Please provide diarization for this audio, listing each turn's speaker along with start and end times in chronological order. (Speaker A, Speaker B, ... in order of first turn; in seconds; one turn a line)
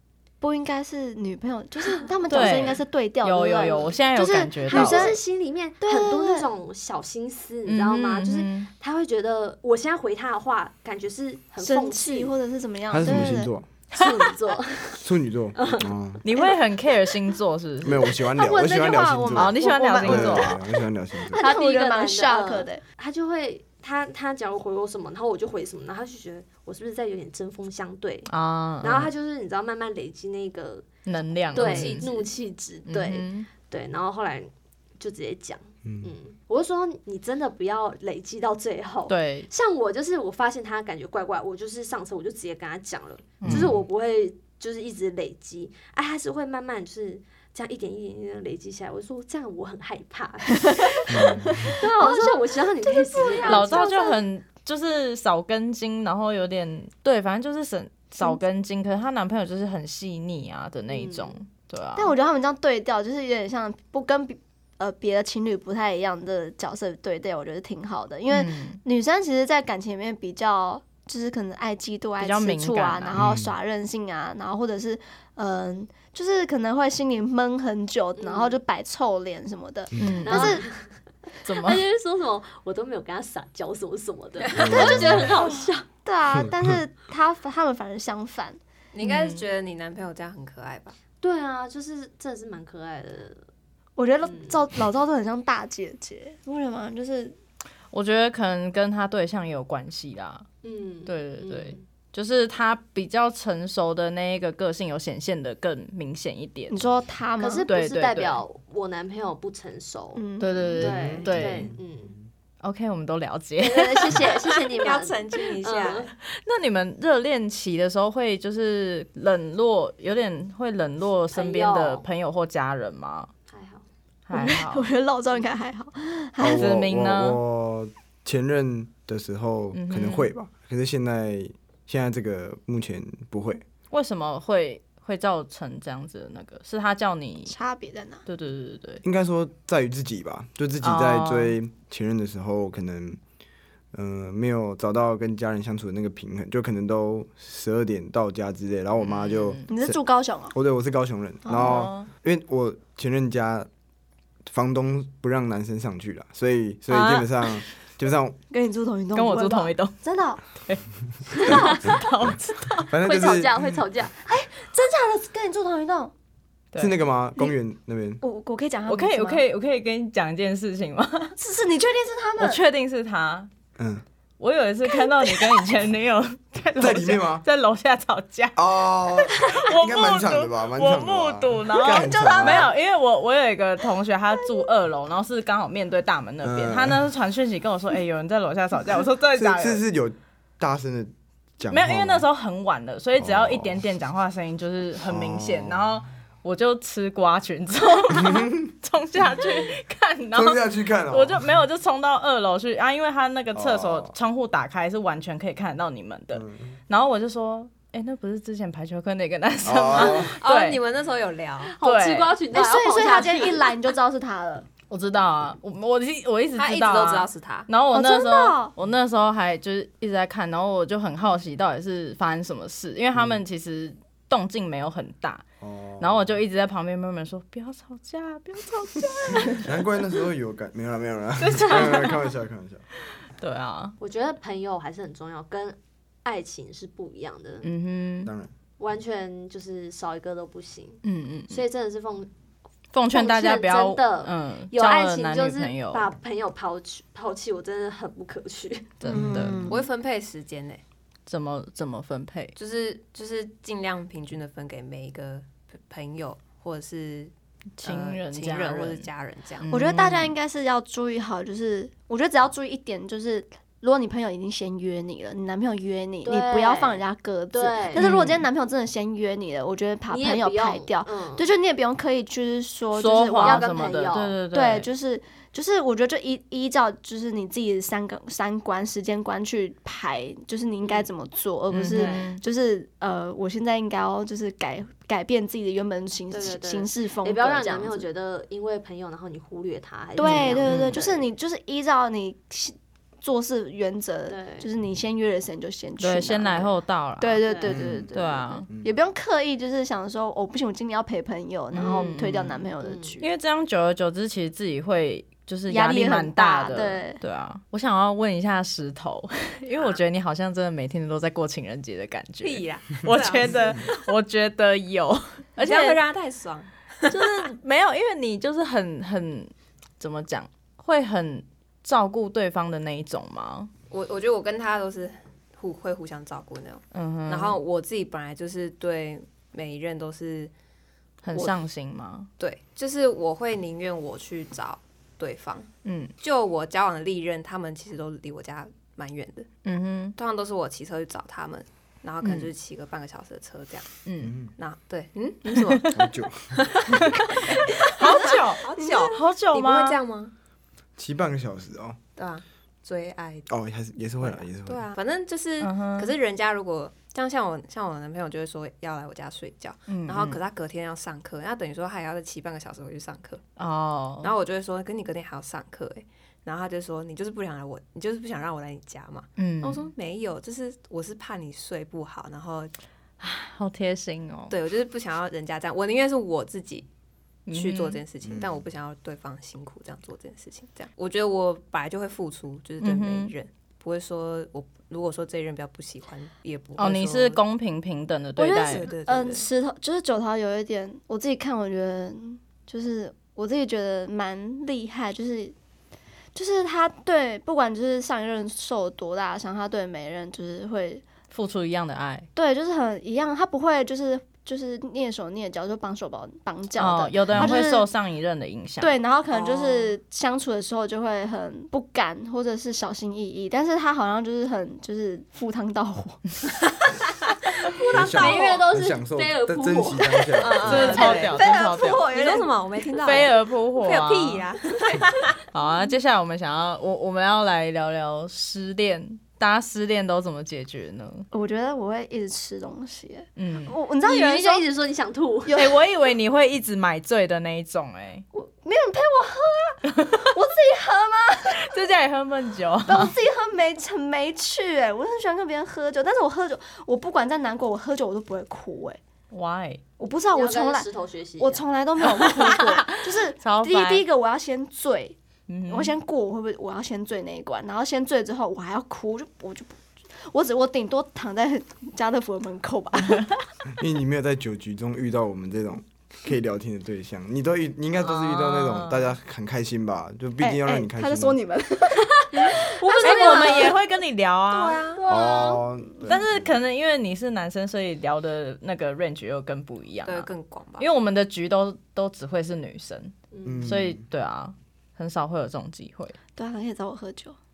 Speaker A: 0.4-5.2
Speaker B: 2.3-5.2
Speaker C: 2.3-2.8
Speaker C: 3.6-3.9
Speaker C: 4.7-12.3
Speaker A: 5.8-6.5
Speaker B: 7.7-8.7
Speaker A: 11.6-13.5
Speaker D: 12.9-13.7
Speaker C: 13.9-16.4
Speaker D: 15.0-16.2
Speaker B: 16.2-18.1
Speaker D: 17.8-21.4
Speaker C: 18.2-19.1
Speaker A: 18.4-20.6
Speaker B: 19.3-20.6
Speaker A: 21.3-22.8
Speaker C: 21.3-28.3
Speaker B: 28.3-29.1
Speaker C: 28.8-30.9
Speaker B: 31.1-32.0
Speaker E: 31.5-32.2
Speaker C: 31.5-54.2
Speaker B: 32.9-33.5
Speaker D: 35.8-36.1
Speaker B: 39.1-39.5
Speaker B: 43.4-43.7
Speaker D: 43.4-43.8
Speaker A: 50.6-53.9
Speaker D: 51.1-51.8
Speaker B: 53.4-62.1
Speaker C: 60.9-61.3
Speaker A: 62.0-80.6
Speaker B: 68.3-68.8
Speaker B: 72.2-73.2
Speaker D: 73.2-73.5
Speaker C: 78.2-78.6
Speaker B: 80.0-80.6
Speaker C: 80.2-80.9
Speaker B: 81.4-81.8
Speaker C: 81.5-85.8
Speaker E: 84.4-84.9
Speaker D: 84.6-85.3
Speaker A: 84.7-88.6
Speaker D: 86.3-86.8
Speaker E: 88.9-91.0
Speaker B: 89.0-89.4
Speaker C: 91.2-93.4
Speaker A: 94.0-97.3
Speaker C: 94.2-94.6
Speaker B: 97.9-100.5
Speaker C: 100.6-101.8
Speaker B: 101.0-106.8
Speaker A: 106.7-107.7
Speaker C: 107.4-110.2
Speaker B: 107.7-108.4
Speaker A: 110.1-110.8
Speaker B: 110.4-111.7
Speaker C: 110.8-112.2
Speaker D: 110.8-111.8
Speaker B: 112.6-114.2
Speaker C: 113.6-116.1
Speaker E: 114.7-116.1
Speaker B: 116.3-123.3
Speaker C: 121.3-122.0
Speaker C: 123.5-123.8
Speaker B: 124.3-124.9
Speaker A: 124.3-126.7
Speaker D: 126.4-133.6
Speaker B: 126.5-127.4
Speaker B: 129.7-130.3
Speaker B: 133.9-137.5
Speaker A: 137.5-138.2
Speaker B: 138.2-139.0
Speaker D: 139.0-143.2
Speaker B: 140.8-141.5
Speaker D: 143.9-150.0
Speaker B: 149.0-149.7
Speaker A: 149.7-150.5
Speaker D: 150.5-153.7
Speaker A: 151.4-151.9
Speaker B: 151.5-152.1
Speaker D: 154.4-158.4
Speaker B: 156.9-157.6
Speaker A: 158.5-160.4
Speaker B: 159.1-160.0
Speaker B: 160.5-162.9
Speaker C: 161.4-161.9
Speaker A: 161.4-161.8
Speaker D: 162.9-163.8
Speaker C: 163.0-164.2
Speaker A: 164.2-166.1
Speaker D: 166.8-168.2
Speaker A: 168.2-169.4
Speaker B: 168.9-171.4
Speaker A: 171.4-172.6
Speaker B: 172.4-173.5
Speaker D: 173.8-174.0
Speaker B: 174.4-178.6
Speaker A: 174.9-175.6
Speaker D: 176.8-177.4
Speaker D: 178.6-182.7
Speaker B: 179.4-189.8
Speaker A: 181.8-182.7
Speaker D: 186.4-187.1
Speaker D: 189.3-192.2
Speaker B: 191.7-210.8
Speaker D: 193.2-193.8
Speaker D: 195.0-196.0
Speaker D: 198.1-198.7
Speaker D: 200.3-201.6
Speaker D: 203.5-204.2
Speaker D: 206.3-206.8
Speaker D: 209.6-210.3
Speaker E: 210.1-211.7
Speaker C: 211.7-213.8
Speaker B: 211.8-212.3
Speaker A: 212.5-214.7
Speaker B: 214.9-225.4
Speaker E: 216.5-217.7
Speaker A: 217.9-218.7
Speaker D: 225.6-226.3
Speaker B: 226.0-229.7
Speaker D: 229.5-232.8
Speaker B: 231.4-232.3
Speaker B: 233.4-233.9
Speaker C: 234.0-237.7
Speaker B: 237.6-238.3
Speaker D: 238.2-238.5
Speaker C: 238.8-242.3
Speaker B: 241.0-241.6
Speaker B: 242.9-246.1
Speaker C: 243.1-249.0
Speaker B: 249.0-249.7
Speaker A: 249.1-249.8
Speaker D: 249.1-249.5
Speaker E: 249.6-250.8
Speaker B: 251.3-252.5
Speaker E: 252.6-259.7
Speaker B: 257.8-259.1
Speaker B: 259.6-260.3
Speaker A: 259.7-273.7
Speaker C: 266.2-268.1
Speaker B: 267.9-268.4
Speaker C: 270.1-271.5
Speaker B: 272.9-274.9
Speaker C: 273.4-274.4
Speaker A: 274.5-288.1
Speaker C: 280.8-281.1
Speaker B: 281.7-282.4
Speaker C: 281.9-282.2
Speaker C: 286.3-291.2
Speaker A: 290.1-303.3
Speaker B: 290.2-291.0
Speaker C: 294.3-294.7
Speaker B: 296.0-297.4
Speaker C: 297.4-298.3
Speaker D: 297.6-298.1
Speaker B: 298.1-298.7
Speaker D: 298.7-298.9
Speaker B: 301.7-302.7
Speaker C: 301.7-302.1
Speaker C: 302.8-303.2
Speaker B: 303.2-316.0
Speaker A: 305.7-307.2
Speaker E: 312.4-314.1
Speaker E: 315.6-317.4
Speaker B: 317.1-323.7
Speaker E: 323.9-330.5
Speaker B: 326.9-327.6
Speaker B: 331.2-332.3
Speaker E: 332.4-335.7
Speaker B: 335.8-336.1
Speaker E: 336.2-339.5
Speaker B: 339.6-340.1
Speaker E: 340.2-343.9
Speaker B: 342.2-342.5
Speaker B: 344.1-344.4
Speaker D: 344.2-344.5
Speaker E: 344.6-346.0
Speaker B: 345.5-346.0
Speaker D: 345.9-347.1
Speaker E: 346.5-350.3
Speaker B: 346.9-350.0
Speaker A: 348.0-348.2
Speaker A: 348.8-349.1
Speaker D: 351.0-352.0
Speaker E: 352.1-353.5
Speaker D: 353.5-354.8
Speaker E: 354.2-363.4
Speaker B: 355.6-356.1
Speaker B: 359.9-360.4
Speaker B: 363.6-364.3
Speaker E: 364.2-372.7
Speaker B: 369.4-369.9
Speaker B: 373.2-374.6
Speaker E: 374.5-376.9
Speaker B: 377.5-378.0
Speaker E: 377.5-387.4
Speaker D: 378.2-378.6
Speaker B: 382.8-383.3
Speaker B: 386.8-388.9
Speaker A: 388.4-395.5
Speaker E: 388.5-389.5
Speaker A: 396.3-401.0
Speaker B: 401.3-402.3
Speaker A: 402.3-407.9
Speaker B: 406.8-408.9
Speaker D: 407.3-407.6
Speaker A: 408.8-416.7
Speaker E: 409.4-409.7
Speaker C: 417.8-420.6
Speaker D: 417.9-421.0
Speaker A: 418.1-418.6
Speaker E: 420.4-425.4
Speaker B: 420.6-422.1
Speaker A: 420.7-422.6
Speaker B: 423.0-424.4
Speaker B: 425.5-431.3
Speaker A: 431.3-434.6
Speaker B: 433.4-433.8
Speaker C: 434.0-435.6
Speaker A: 435.5-435.8
Speaker B: 435.5-438.2
Speaker A: 438.3-441.7
Speaker B: 439.9-440.3
Speaker B: 441.5-443.1
Speaker A: 442.9-449.0
Speaker B: 449.3-449.8
Speaker A: 450.0-450.9
Speaker C: 450.3-451.6
Speaker A: 451.4-455.1
Speaker C: 452.2-452.5
Speaker B: 452.9-454.0
Speaker B: 455.5-455.9
Speaker A: 455.7-463.3
Speaker D: 463.8-471.4
Speaker B: 468.0-469.1
Speaker A: 470.4-473.7
Speaker C: 472.8-473.7
Speaker B: 473.0-474.8
Speaker E: 473.0-473.7
Speaker E: 474.5-475.0
Speaker C: 474.9-475.6
Speaker D: 475.1-476.5
Speaker B: 476.1-486.2
Speaker E: 480.0-480.9
Speaker C: 483.3-483.7
Speaker D: 483.4-484.0
Speaker A: 486.4-487.4